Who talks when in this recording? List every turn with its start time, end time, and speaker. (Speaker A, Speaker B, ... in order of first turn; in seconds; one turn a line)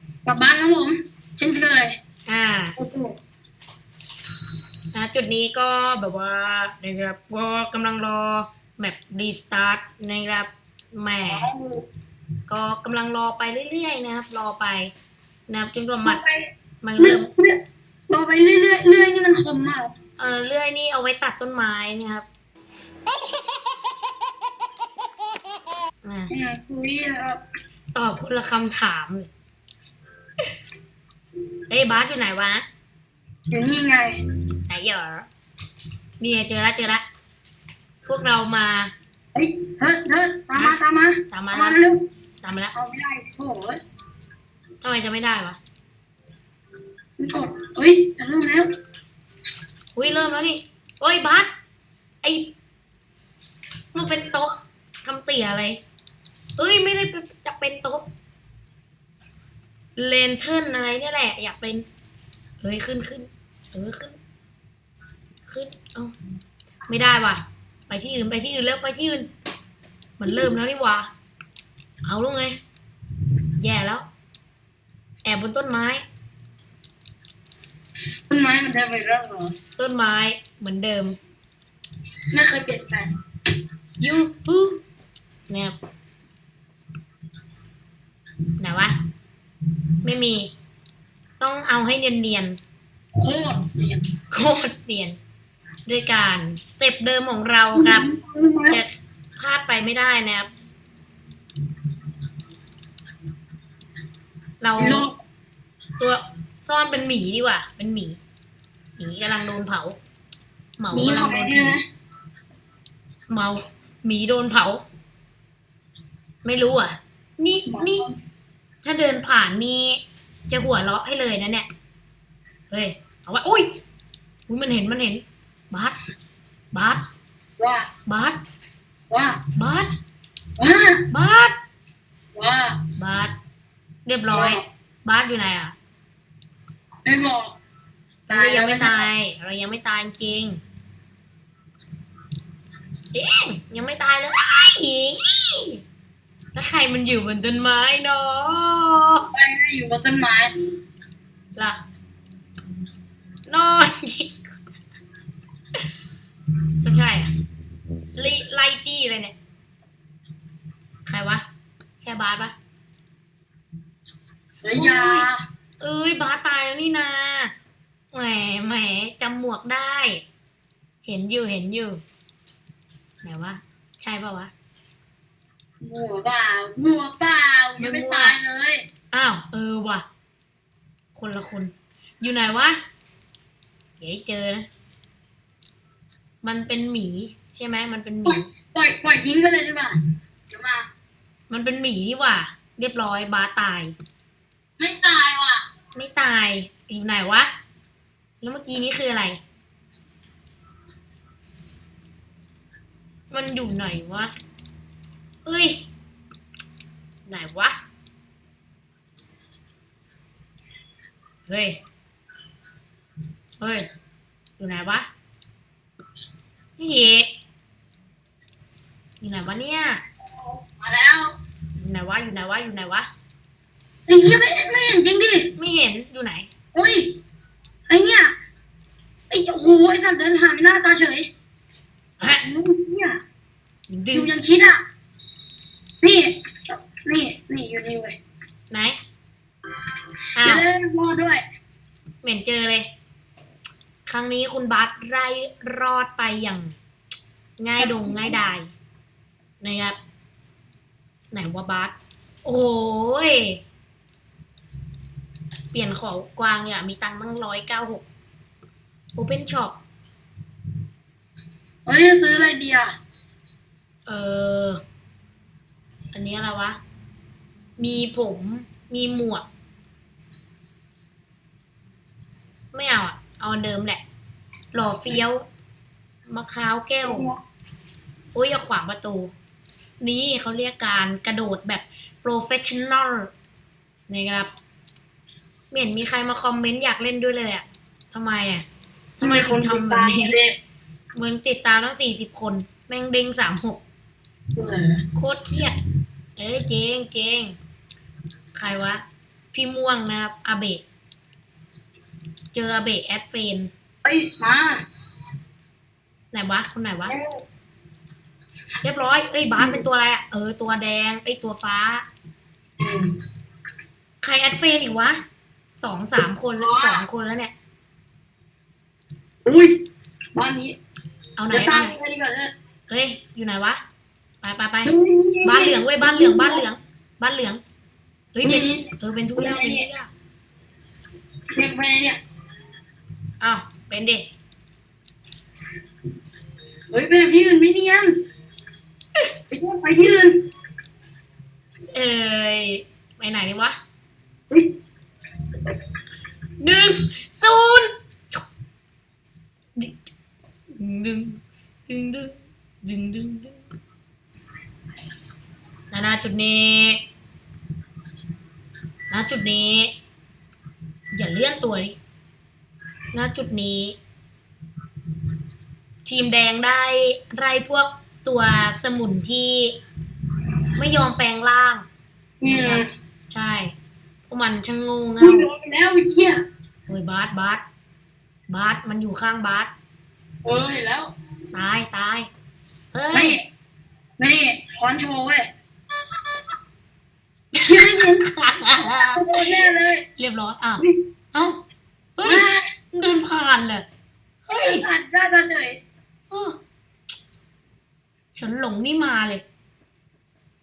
Speaker A: 0.2-1.9
Speaker B: 2.3-2.7
Speaker A: 2.8-3.1
Speaker B: 4.9-11.5
Speaker A: 11.3-11.8
Speaker B: 12.5-14.9
Speaker B: 15.5-16.2
Speaker A: 16.0-19.9
Speaker B: 16.8-17.3
Speaker B: 20.2-22.2
Speaker B: 26.0-26.3
Speaker A: 26.3-27.4
Speaker B: 27.9-29.3
Speaker B: 31.7-32.6
Speaker A: 33.5-34.2
Speaker B: 34.7-35.3
Speaker B: 36.2-37.0
Speaker B: 38.0-38.9
Speaker A: 39.3-42.1
Speaker B: 40.5-41.8
Speaker B: 42.4-42.7
Speaker A: 42.7-43.8
Speaker B: 44.8-45.6
Speaker A: 47.2-48.7
Speaker B: 49.9-51.5
Speaker B: 52.2-52.5
Speaker B: 53.9-55.8
Speaker B: 56.6-58.0
Speaker B: 60.0-61.9
Speaker B: 62.6-64.2
Speaker B: 65.5-66.1
Speaker B: 66.9-69.3
Speaker B: 70.2-71.1
Speaker B: 72.0-72.6
Speaker B: 73.6-74.0
Speaker B: 75.2-76.0
Speaker A: 78.3-79.5
Speaker B: 79.8-81.1
Speaker A: 82.3-83.1
Speaker B: 84.0-84.8
Speaker B: 85.5-85.8
Speaker B: 88.6-89.0
Speaker B: 90.0-90.5
Speaker B: 91.4-92.6
Speaker A: 93.2-94.1
Speaker B: 94.3-95.2
Speaker B: 95.8-98.1
Speaker A: 97.7-98.8
Speaker B: 98.7-100.5
Speaker B: 104.6-105.0
Speaker A: 104.8-105.2
Speaker B: 106.0-108.2
Speaker B: 109.0-110.0
Speaker B: 110.8-111.8
Speaker A: 110.9-111.8
Speaker B: 113.3-114.8
Speaker B: 116.4-118.1
Speaker A: 117.7-118.1
Speaker B: 118.8-121.7
Speaker B: 122.7-123.8
Speaker B: 124.5-126.0
Speaker B: 126.7-127.0
Speaker A: 127.6-127.9
Speaker B: 128.1-128.4
Speaker A: 129.1-129.4
Speaker B: 129.5-129.9
Speaker A: 130.6-131.1
Speaker B: 131.1-131.6
Speaker A: 132.3-132.8
Speaker B: 133.0-133.3
Speaker B: 134.1-135.7
Speaker A: 134.3-134.6
Speaker A: 137.0-137.6
Speaker B: 138.3-140.6
Speaker A: 138.3-139.0
Speaker B: 143.1-145.8
Speaker B: 146.5-149.3
Speaker A: 149.3-150.5
Speaker B: 153.5-154.5
Speaker B: 156.8-157.3
Speaker B: 158.1-159.3
Speaker B: 161.1-161.4
Speaker B: 162.0-162.5
Speaker A: 164.6-165.4
Speaker B: 164.8-165.3
Speaker B: 165.8-167.5
Speaker B: 168.1-170.2
Speaker B: 171.0-172.0
Speaker B: 173.2-174.5
Speaker A: 175.8-178.8
Speaker B: 177.8-178.4
Speaker B: 179.1-180.0
Speaker B: 181.1-182.8
Speaker B: 184.0-184.7
Speaker B: 186.4-188.5
Speaker A: 188.2-189.9
Speaker A: 190.5-190.9
Speaker B: 191.5-193.9
Speaker A: 194.8-195.6
Speaker B: 195.9-197.5
Speaker B: 198.4-199.4
Speaker B: 203.3-204.3
Speaker B: 205.4-205.8
Speaker B: 207.3-207.7
Speaker B: 211.5-211.8
Speaker B: 213.6-213.9
Speaker B: 214.6-215.1
Speaker B: 216.8-217.3
Speaker B: 219.2-220.0
Speaker A: 220.6-221.3
Speaker B: 221.8-223.1
Speaker A: 224.1-225.5
Speaker B: 225.6-226.5
Speaker A: 226.7-227.2
Speaker A: 227.9-228.3
Speaker A: 229.3-231.3
Speaker A: 232.4-233.2
Speaker B: 233.9-234.3
Speaker A: 234.1-234.8
Speaker A: 236.0-238.2
Speaker B: 238.7-239.0
Speaker B: 240.4-240.6
Speaker A: 240.4-241.4
Speaker B: 242.2-242.9
Speaker B: 244.1-246.8
Speaker B: 247.6-248.7
Speaker A: 247.8-248.4
Speaker B: 249.6-249.9
Speaker B: 251.3-253.6
Speaker B: 255.7-258.0
Speaker B: 259.1-259.8
Speaker A: 261.9-262.9
Speaker B: 264.1-264.8
Speaker B: 266.1-266.8
Speaker B: 267.8-269.5
Speaker B: 272.7-274.0
Speaker B: 274.7-275.4
Speaker B: 276.3-277.3
Speaker A: 277.0-277.4
Speaker B: 278.3-279.3
Speaker B: 280.0-283.3
Speaker B: 284.1-284.5
Speaker B: 285.7-288.6
Speaker B: 289.2-290.4
Speaker A: 289.2-290.6
Speaker B: 291.1-293.8
Speaker A: 294.5-295.0
Speaker B: 295.1-295.8
Speaker B: 296.4-297.6
Speaker B: 298.5-300.8
Speaker B: 302.5-303.7
Speaker A: 304.0-304.8
Speaker B: 306.3-307.1
Speaker A: 307.1-307.4
Speaker B: 308.8-312.1
Speaker A: 309.6-309.8
Speaker A: 312.8-313.1
Speaker B: 314.2-315.2
Speaker B: 315.8-317.5
Speaker A: 316.6-317.0
Speaker A: 319.4-319.8
Speaker A: 320.3-320.8
Speaker B: 321.4-322.0
Speaker A: 321.5-322.5
Speaker B: 322.9-323.8
Speaker B: 324.4-327.6
Speaker A: 324.8-326.6
Speaker B: 328.3-330.1
Speaker A: 328.4-329.9
Speaker A: 331.5-332.2
Speaker B: 333.4-334.3
Speaker A: 336.9-338.2
Speaker A: 339.5-340.4
Speaker B: 341.9-343.8
Speaker B: 346.6-348.4
Speaker B: 350.8-353.6
Speaker B: 355.9-357.0
Speaker B: 359.1-359.9
Speaker B: 361.1-362.0
Speaker B: 363.1-363.9
Speaker B: 366.0-369.8
Speaker B: 370.8-371.9
Speaker A: 372.4-372.9
Speaker B: 372.4-373.7
Speaker B: 374.3-375.5
Speaker A: 375.2-376.4
Speaker B: 376.9-377.6
Speaker B: 378.5-379.7
Speaker A: 380.4-381.1
Speaker B: 381.5-382.3
Speaker B: 382.9-383.4
Speaker A: 383.1-383.4
Speaker A: 384.2-385.5
Speaker B: 387.5-389.4
Speaker A: 387.6-388.3
Speaker A: 389.1-390.1
Speaker B: 390.1-391.6
Speaker B: 392.1-393.8
Speaker A: 392.2-392.6
Speaker B: 394.4-394.9
Speaker A: 394.5-395.8
Speaker B: 396.3-396.6
Speaker B: 398.3-399.4